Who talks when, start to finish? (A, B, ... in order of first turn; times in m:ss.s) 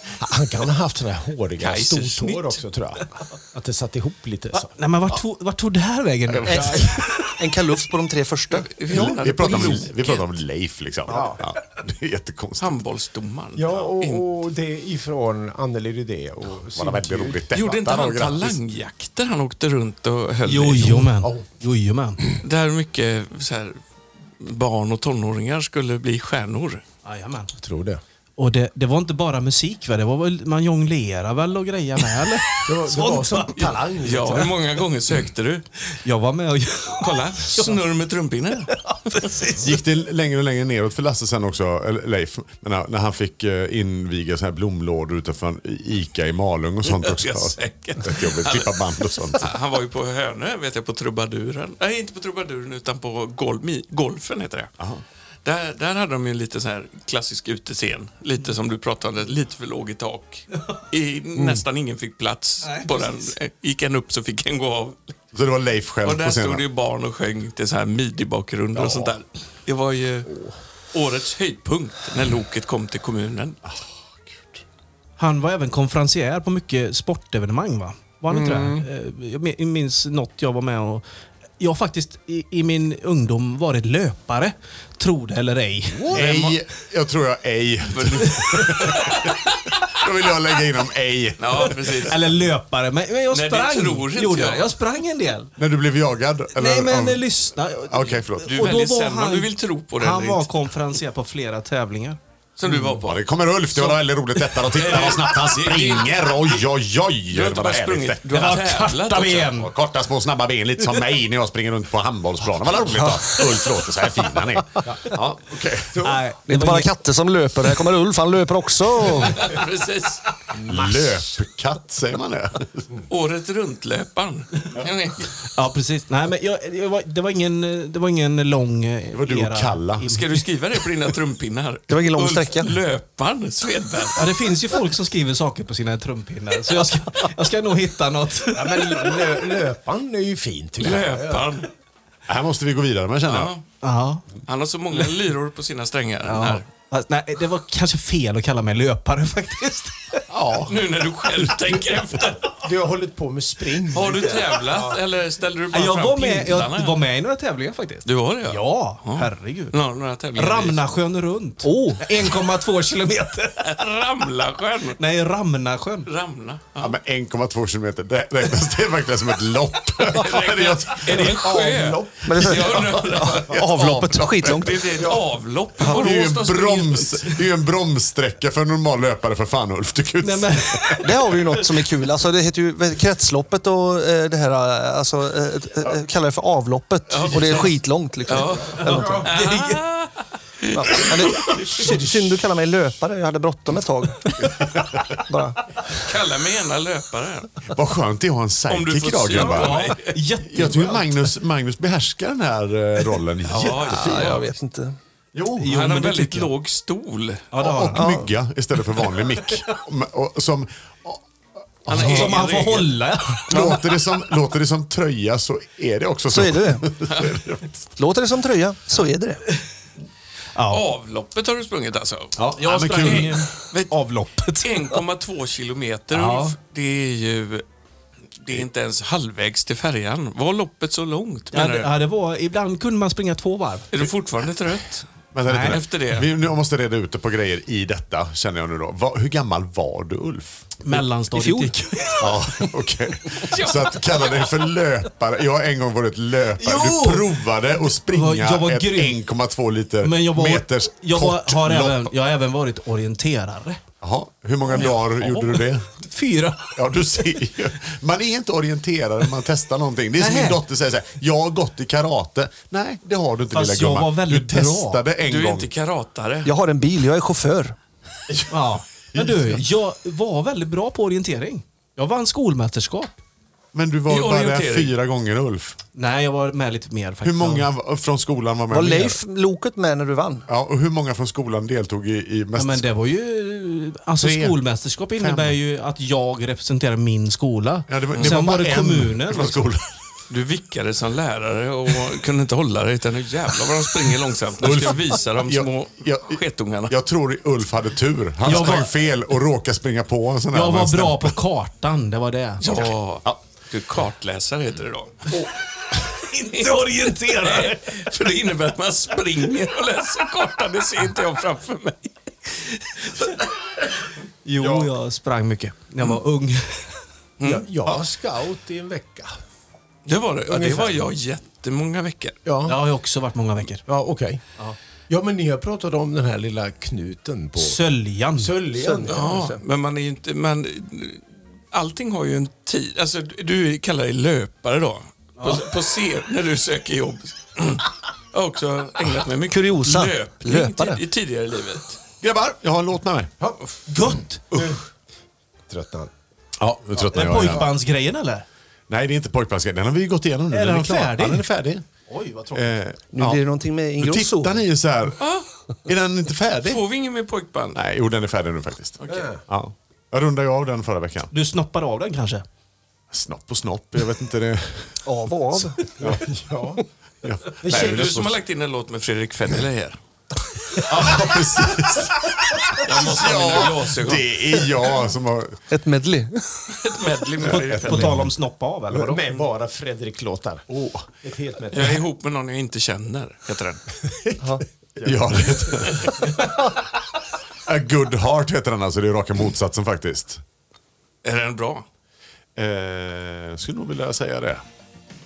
0:00.2-0:04.7 A
0:01.6-0:02.6 B
0:04.5-0:07.1 C
0:06.5-0:07.1 A
0:06.5-0:08.8 D
0:08.5-0:10.3 B
0:08.9-0:12.8 E
0:11.1-0:11.4 A
0:12.6-0:14.3 B
0:13.6-0:17.4 A
0:16.7-0:18.6 E
0:17.5-0:21.1 B
0:20.4-0:22.2 C
0:21.2-0:21.4 A
0:22.4-0:23.8 B
0:24.4-0:26.8 B
0:27.0-0:27.5 C
0:27.6-0:28.0 A
0:28.4-0:33.7 C
0:32.6-0:34.6 A
0:33.6-0:35.7 B
0:36.0-0:37.8 C
0:37.0-0:38.8 B
0:38.7-0:39.8 C
0:39.6-0:49.5 E
0:46.8-0:54.7 B
0:55.4-1:05.1 B
1:02.6-1:03.3 C
1:05.3-1:06.6 E
1:06.0-1:10.3 B
1:08.8-1:09.1 E
1:10.9-1:13.6 B
1:13.6-1:14.6 E
1:15.2-1:21.0 C
1:18.3-1:18.8 A
1:21.6-1:26.2 C
1:26.0-1:29.3 E
1:26.1-1:26.6 B
1:27.9-1:29.3 B
1:28.3-1:28.7 C
1:29.9-1:32.1 E
1:31.4-1:32.2 B
1:32.0-1:35.5 C
1:33.3-1:34.7 B
1:35.6-1:38.8 E
1:36.6-1:43.0 C
1:38.4-1:40.5 B
1:42.6-1:43.2 B
1:43.0-1:48.5 E
1:44.6-1:46.5 B
1:47.3-1:49.6 B
1:48.3-1:49.7 C
1:49.5-1:56.0 E
1:54.8-1:55.1 A
1:55.9-1:56.2 A
1:56.0-1:56.9 C
1:56.5-1:59.5 D
1:59.1-2:00.2 B
2:00.5-2:01.2 A
2:00.7-2:02.9 E
2:03.1-2:05.3 B
2:05.6-2:10.4 C
2:09.1-2:10.2 E
2:10.1-2:14.2 B
2:11.9-2:12.8 D
2:14.2-2:19.4 C
2:18.5-2:21.6 A
2:20.8-2:21.7 B
2:22.3-2:23.5 E
2:23.3-2:23.6 B
2:23.8-2:24.3 C
2:24.5-2:26.6 B
2:26.2-2:30.2 C
2:30.3-2:30.8 E
2:30.7-2:32.5 B
2:31.7-2:35.0 A
2:33.9-2:37.0 B
2:35.7-2:39.8 C
2:38.0-2:40.8 B
2:40.4-2:43.8 C
2:43.6-2:45.0 B
2:45.0-2:46.1 C
2:46.1-2:47.0 B
2:46.8-2:51.7 E
2:50.0-2:53.6 B
2:51.1-2:53.1 A
2:52.2-2:54.9 D
2:52.8-2:54.7 E
2:54.4-2:57.4 B
2:55.0-2:55.2 A
2:55.8-3:01.0 E
3:00.2-3:01.6 C
3:01.0-3:09.3 D
3:07.1-3:07.8 B
3:08.3-3:11.7 B
3:08.8-3:09.8 C
3:08.9-3:09.2 A
3:10.7-3:14.6 D
3:14.4-3:15.2 E
3:15.2-3:16.0 D
3:15.9-3:17.5 B
3:17.7-3:19.9 E
3:18.7-3:20.2 B
3:19.3-3:21.3 C
3:20.4-3:24.4 E
3:23.5-3:24.5 B
3:23.8-3:25.0 D
3:25.3-3:25.7 E
3:25.6-3:26.5 C
3:25.7-3:27.5 B
3:27.5-3:28.2 C
3:27.6-3:31.2 E
3:28.0-3:28.3 D
3:31.8-3:32.6 E
3:31.9-3:33.0 B
3:31.9-3:33.9 C
3:33.5-3:37.9 E
3:36.3-3:36.9 D
3:37.1-3:37.4 B
3:38.0-3:39.4 D
3:40.6-3:40.8 C
3:40.7-3:44.0 B
3:42.4-3:43.5 E
3:42.5-3:45.0 C
3:44.6-3:47.6 B
3:46.1-3:46.6 C
3:48.4-3:51.9 B
3:51.5-3:53.9 C
3:53.9-3:55.1 B
3:55.3-4:01.0 E
3:55.5-3:55.8 C
3:55.6-3:56.3 B
4:00.8-4:02.7 C
4:02.2-4:12.1 E
4:03.5-4:04.6 B
4:06.6-4:09.2 C
4:10.0-4:13.8 C
4:14.0-4:15.9 E
4:14.7-4:16.8 C
4:16.8-4:25.7 E
4:20.2-4:20.6 C
4:23.5-4:25.0 C
4:25.2-4:26.5 B
4:26.4-4:27.8 D
4:28.3-4:29.6 E
4:28.5-4:33.2 C
4:33.7-4:35.8 E
4:34.1-4:34.9 B
4:36.0-4:37.7 C
4:37.2-4:39.2 E
4:38.7-4:40.5 D
4:40.5-4:42.9 E
4:42.6-4:49.6 C
4:44.2-4:44.6 E
4:45.2-4:45.6 E
4:47.9-4:50.0 E
4:50.3-4:57.0 B
4:54.6-5:01.4 E
4:58.4-4:58.9 C
5:00.5-5:02.7 C
5:02.6-5:05.4 B
5:02.7-5:03.4 E
5:06.1-5:08.1 C
5:06.9-5:13.4 B
5:14.4-5:17.0 C
5:14.6-5:14.9 A
5:17.4-5:18.0 B
5:17.4-5:19.4 A
5:20.1-5:22.4 B
5:20.5-5:21.1 A
5:22.4-5:22.8 A
5:22.6-5:23.8 C
5:23.9-5:24.4 A
5:25.1-5:27.8 A
5:27.6-5:28.6 C
5:28.4-5:29.4 A
5:28.8-5:29.6 D
5:29.1-5:42.0 B
5:35.4-5:35.7 C
5:39.5-5:41.0 D
5:42.2-5:43.3 E
5:43.4-5:44.8 A
5:43.9-5:44.4 C
5:44.5-5:44.8 E
5:45.7-5:46.1 A
5:46.6-5:47.7 E
5:47.1-5:48.5 C
5:47.2-5:47.6 A
5:48.9-5:51.8 E
5:50.5-5:51.5 C
5:52.1-5:52.7 C
5:52.5-5:53.4 E
5:53.1-5:54.6 D
5:54.0-5:55.2 E
5:55.2-5:55.5 B
5:55.9-5:56.8 E
5:56.6-5:57.8 B
5:57.7-6:01.3 E
5:59.0-5:59.3 B
5:59.1-5:59.4 A
6:01.3-6:02.4 C
6:03.1-6:05.0 E
6:05.0-6:05.9 D
6:06.0-6:06.8 A
6:07.2-6:08.4 E
6:07.6-6:08.2 A
6:07.7-6:10.0 B
6:10.8-6:15.6 E
6:12.8-6:14.3 B
6:15.7-6:16.6 D
6:16.7-6:18.2 B
6:17.4-6:19.2 C
6:17.5-6:18.3 E
6:18.9-6:20.7 A
6:20.7-6:21.1 E
6:21.2-6:22.0 A
6:21.7-6:23.8 B
6:24.1-6:26.5 A
6:25.0-6:26.4 E
6:27.7-6:30.4 E
6:31.2-6:31.8 B
6:32.6-6:34.6 E